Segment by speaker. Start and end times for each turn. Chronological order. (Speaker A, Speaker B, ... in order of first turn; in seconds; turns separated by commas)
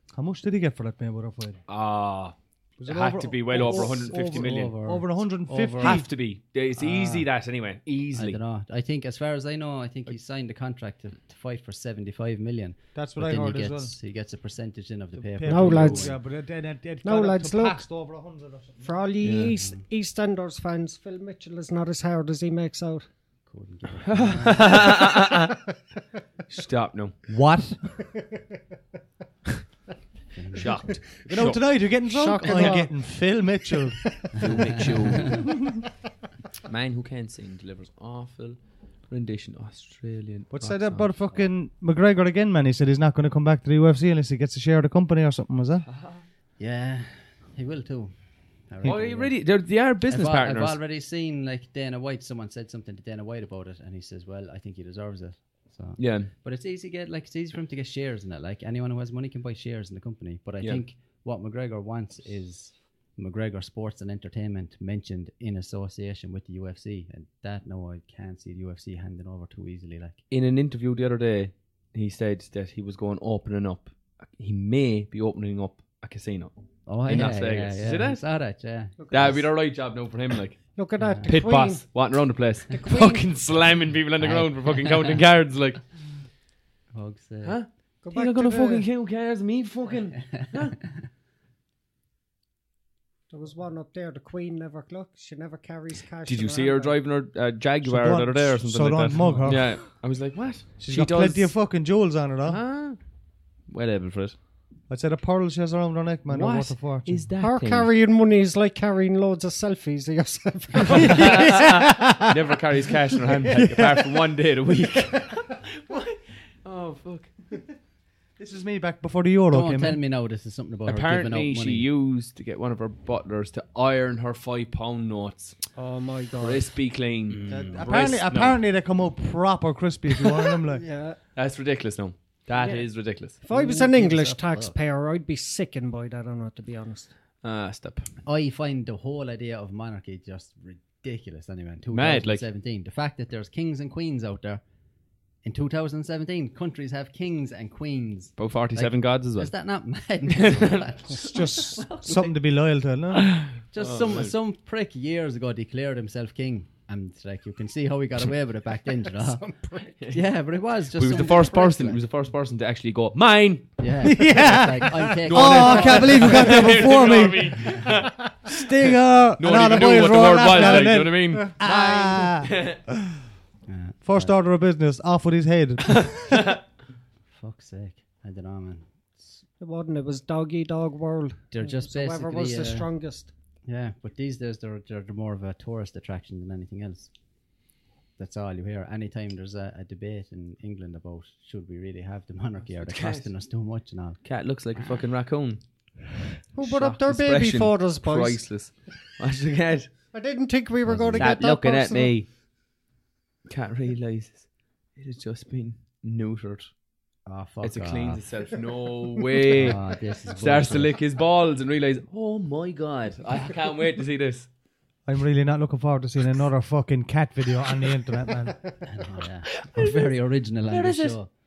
Speaker A: 0.1-1.6, Speaker B: 1.7-4.7, Speaker A: 2.8-6.1, Speaker C: 3.5-6.1, Speaker B: 5.8-8.4, Speaker C: 6.8-7.3, Speaker C: 8.1-16.2, Speaker A: 12.9-13.9, Speaker A: 15.2-18.9, Speaker D: 15.4-16.2, Speaker D: 17.0-17.8, Speaker D: 18.8-23.1, Speaker B: 19.2-19.5, Speaker C: 19.2-19.8, Speaker C: 23.5-24.9, Speaker B: 24.1-25.5, Speaker B: 26.5-27.2, Speaker A: 27.3-27.8, Speaker C: 30.3-31.0, Speaker B: 30.6-32.9, Speaker A: 31.3-34.5, Speaker D: 32.1-33.0, Speaker B: 34.4-35.6, Speaker A: 35.3-35.8, Speaker B: 36.6-41.1, Speaker A: 40.5-45.9, Speaker B: 45.9-46.2, Speaker C: 46.6-49.5, Speaker B: 48.9-50.8, Speaker C: 50.1-70.2, Speaker B: 56.0-56.3, Speaker B: 70.3-78.2, Speaker C: 76.9-79.5, Speaker D: 79.0-79.4, Speaker B: 79.1-85.8, Speaker D: 80.8-82.0, Speaker C: 81.0-81.4, Speaker D: 82.7-83.3, Speaker C: 84.2-85.2, Speaker C: 86.9-87.6, Speaker B: 87.4-90.8, Speaker D: 88.0-88.9, Speaker D: 93.3-97.0, Speaker B: 96.3-101.6, Speaker A: 97.8-99.8, Speaker A: 100.8-102.6, Speaker B: 102.5-103.0, Speaker B: 103.7-104.4, Speaker A: 104.9-107.3, Speaker B: 106.3-107.9, Speaker D: 107.4-111.6, Speaker B: 110.9-117.3, Speaker A: 110.9-112.3, Speaker A: 113.5-114.2, Speaker A: 118.4-120.0, Speaker C: 119.5-121.9, Speaker B: 120.9-125.7, Speaker D: 125.8-126.6, Speaker B: 126.3-128.6, Speaker C: 127.3-127.9, Speaker A: 127.5-130.8, Speaker D: 130.7-131.2, Speaker B: 131.3-133.4, Speaker D: 132.6-132.8, Speaker D: 133.4-137.1, Speaker C: 133.5-134.8, Speaker B: 137.4-138.1, Speaker C: 138.2-144.6, Speaker B: 141.9-142.4, Speaker C: 145.4-152.3, Speaker B: 148.4-149.5, Speaker B: 150.4-151.2, Speaker A: 151.2-153.3, Speaker B: 153.3-154.3, Speaker C: 153.7-159.5, Speaker D: 159.2-159.9, Speaker C: 160.0-162.0, Speaker B: 160.9-163.8, Speaker C: 163.8-166.7, Speaker A: 164.0-172.7, Speaker B: 165.2-168.6, Speaker D: 165.7-166.5, Speaker B: 169.4-172.8, Speaker D: 171.3-172.2, Speaker C: 173.7-174.3, Speaker A: 174.0-176.5, Speaker B: 176.1-176.6, Speaker C: 177.3-179.2, Speaker D: 179.6-183.3, Speaker C: 181.5-182.9, Speaker C: 183.7-187.1, Speaker C: 188.2-194.2, Speaker B: 192.8-193.3, Speaker B: 194.2-195.6, Speaker D: 196.5-198.5, Speaker B: 196.6-199.9, Speaker D: 200.1-202.1, Speaker C: 200.8-201.3, Speaker B: 201.2-202.3, Speaker B: 203.5-206.7, Speaker C: 207.3-208.2, Speaker B: 207.6-214.5, Speaker C: 209.5-210.9, Speaker A: 215.1-218.6, Speaker C: 218.9-221.3, Speaker B: 219.8-220.1, Speaker B: 220.7-221.2